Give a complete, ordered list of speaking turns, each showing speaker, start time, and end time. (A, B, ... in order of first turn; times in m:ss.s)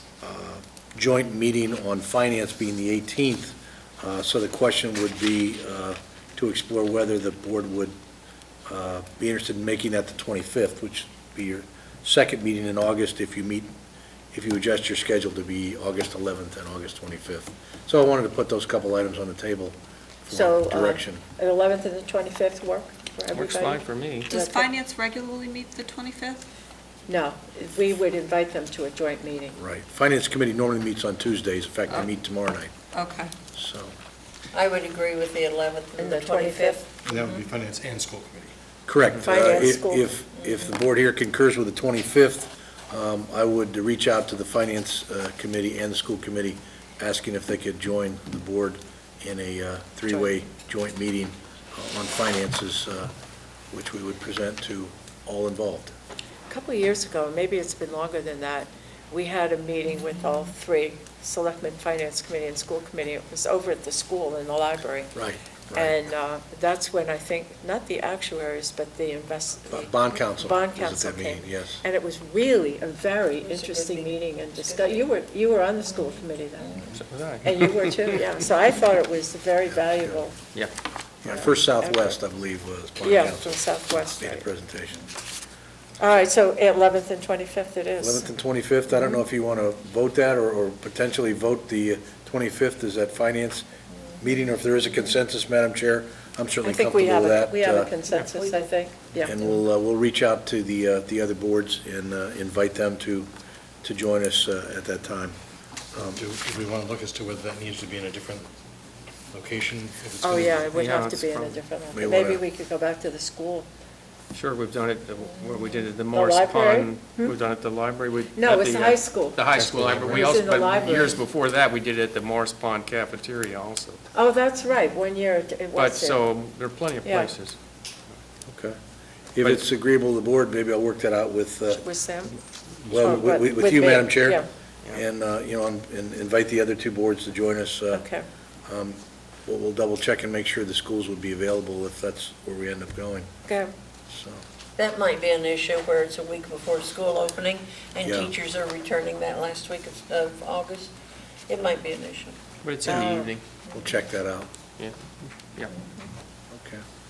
0:00.2-0:07.9 A
0:08.7-0:13.7 A
0:14.3-0:19.8 A
0:20.3-0:21.2 A
0:20.3-0:24.6 B
0:23.3-0:24.3 C
0:24.3-0:26.4 D
0:27.1-0:29.6 B
0:29.6-0:32.7 A
0:33.0-0:33.3 D
0:33.5-0:33.9 A
0:34.5-0:36.8 E
0:36.0-0:36.9 B
0:37.0-0:38.5 F
0:38.9-0:53.1 A
0:39.2-0:40.1 B
0:53.7-0:55.9 A
0:56.5-1:05.2 B
1:05.1-1:05.9 A
1:05.7-1:16.9 B
1:09.7-1:11.8 A
1:13.4-1:15.0 E
1:16.9-1:18.2 C
1:17.4-1:20.4 B
1:21.2-1:25.0 A
1:21.3-1:22.1 B
1:23.0-1:24.4 B
1:26.0-1:28.2 B
1:28.0-1:33.6 A
1:34.2-1:37.9 A
1:36.6-1:39.3 B
1:39.2-1:43.3 A
1:43.8-1:45.4 A
1:45.9-1:46.2 A
1:46.0-1:48.5 F
1:49.3-1:50.9 F
1:50.2-1:53.7 B
1:50.7-1:51.6 C
1:51.9-1:52.4 A
1:54.3-2:04.0 C
1:56.1-1:57.3 B
1:58.3-1:59.4 B
1:59.4-2:00.3 F
2:00.1-2:01.2 B
2:04.1-2:06.2 B
2:05.7-2:07.6 C
2:07.0-2:07.3 B
2:08.5-2:08.8 A
2:09.3-2:11.8 A
2:11.7-2:12.3 B
2:12.9-2:18.1 A
2:13.0-2:14.4 B
2:17.9-2:18.2 B
2:18.7-2:23.3 A
2:24.1-2:24.4 A
2:24.8-2:30.9 E
2:28.0-2:28.3 A
2:31.5-2:32.4 E
2:32.6-2:33.4 C
2:32.9-2:34.5 A
2:32.9-2:33.3 B
2:36.5-2:36.8 A